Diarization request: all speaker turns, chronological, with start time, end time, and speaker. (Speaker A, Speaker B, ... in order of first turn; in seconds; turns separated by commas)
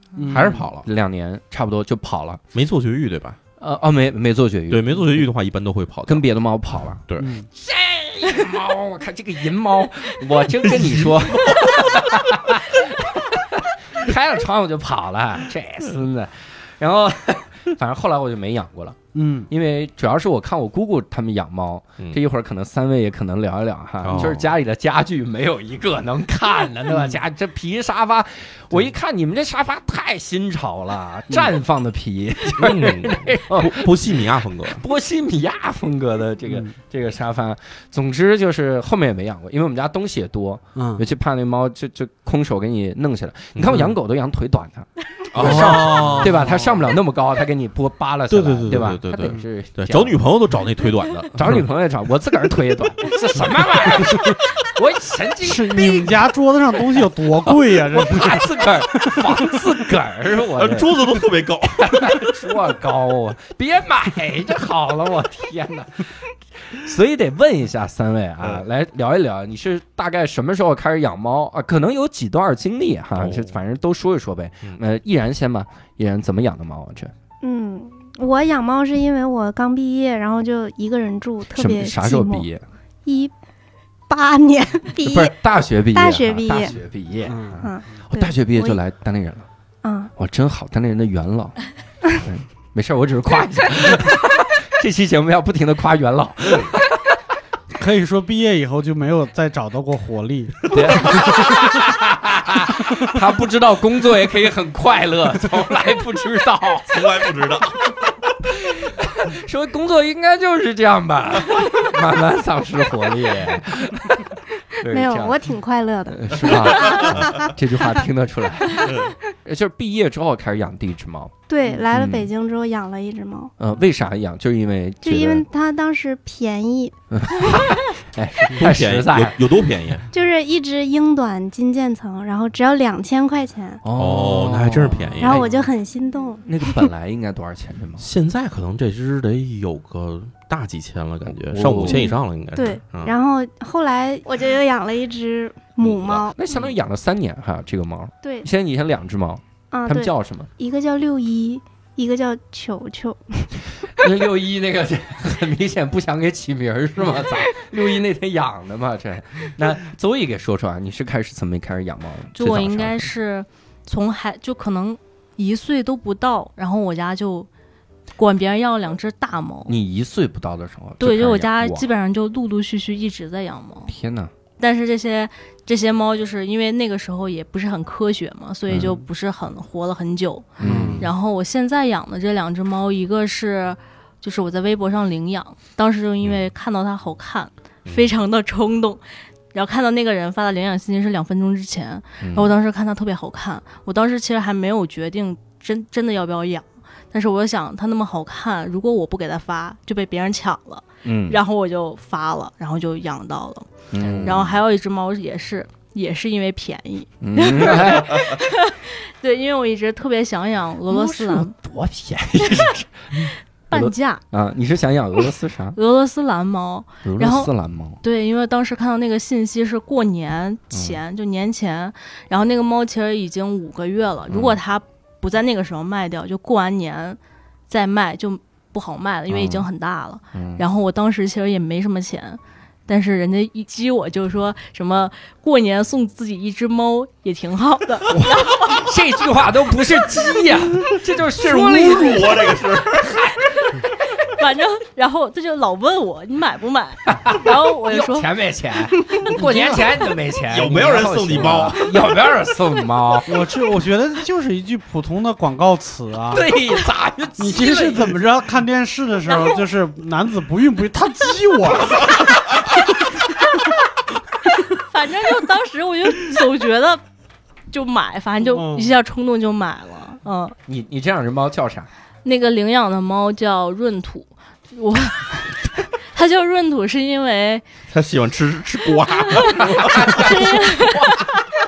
Speaker A: 0.2-0.7, Speaker B: 0.2-0.9, Speaker C: 0.8-2.4, Speaker B: 2.5-3.4, Speaker C: 3.6-5.2, Speaker B: 4.7-6.2, Speaker C: 6.1-50.2, Speaker A: 7.2-7.5, Speaker B: 10.6-12.1, Speaker A: 19.1-19.5, Speaker B: 24.0-24.5, Speaker A: 26.9-27.2, Speaker B: 32.6-34.8, Speaker A: 40.8-41.0, Speaker B: 43.5-44.0, Speaker B: 45.3-46.6, Speaker A: 45.4-46.8, Speaker B: 48.3-51.6, Speaker C: 51.3-56.2, Speaker A: 55.4-59.5, Speaker C: 57.4-77.1, Speaker B: 60.6-62.3, Speaker B: 73.2-73.6, Speaker D: 77.4-82.5, Speaker C: 81.5-82.6, Speaker D: 83.0-83.3, Speaker D: 84.1-85.3, Speaker C: 85.0-89.5, Speaker D: 85.9-86.8, Speaker A: 87.3-87.6, Speaker D: 87.6-88.8, Speaker D: 89.8-90.1, Speaker C: 90.2-91.6, Speaker C: 92.1-97.1, Speaker A: 97.7-101.2, Speaker C: 100.7-107.3, Speaker B: 101.0-101.8, Speaker B: 106.9-108.3, Speaker C: 108.5-115.5, Speaker B: 111.5-111.8, Speaker D: 114.8-117.5, Speaker C: 116.1-121.3, Speaker B: 117.0-117.3, Speaker B: 118.9-119.1, Speaker D: 121.5-123.5, Speaker C: 121.9-122.3, Speaker C: 123.6-125.5, Speaker D: 125.0-127.0, Speaker C: 127.1-129.4, Speaker B: 128.5-130.1, Speaker D: 130.1-133.8, Speaker C: 133.8-135.7, Speaker B: 134.0-135.4, Speaker D: 135.2-136.9, Speaker C: 136.5-138.1, Speaker B: 138.0-143.2, Speaker C: 141.5-142.1, Speaker D: 141.9-146.4, Speaker B: 145.8-146.7, Speaker C: 146.3-150.5, Speaker D: 149.7-153.5, Speaker C: 153.9-163.1, Speaker E: 162.3-167.5, Speaker E: 168.2-169.7, Speaker C: 169.7-171.9, Speaker E: 171.0-173.9, Speaker C: 173.9-174.3, Speaker E: 174.6-189.0, Speaker C: 180.6-181.1, Speaker A: 180.6-181.1, Speaker B: 187.8-188.1, Speaker E: 189.5-211.5, Speaker C: 192.2-192.5, Speaker C: 201.0-201.4, Speaker C: 203.9-204.6, Speaker B: 204.0-204.4, Speaker C: 207.2-208.3, Speaker C: 210.9-215.8, Speaker E: 213.2-214.2, Speaker E: 215.8-217.5, Speaker C: 217.0-218.0, Speaker E: 218.0-227.2, Speaker C: 220.7-221.0, Speaker C: 224.3-224.6, Speaker E: 227.7-238.9, Speaker C: 229.3-229.7, Speaker C: 230.3-230.6, Speaker C: 238.1-243.8, Speaker B: 240.9-243.2, Speaker E: 244.2-248.3, Speaker C: 247.1-253.5, Speaker E: 249.0-249.3, Speaker A: 249.4-249.8, Speaker B: 250.5-252.1, Speaker A: 253.3-256.5, Speaker C: 256.3-258.2, Speaker A: 257.4-263.1, Speaker E: 259.3-259.6, Speaker E: 264.8-267.0, Speaker E: 267.7-270.6, Speaker A: 268.5-268.9, Speaker C: 270.7-271.9, Speaker E: 272.2-277.6, Speaker B: 277.9-280.3, Speaker E: 279.3-281.4, Speaker C: 279.8-281.3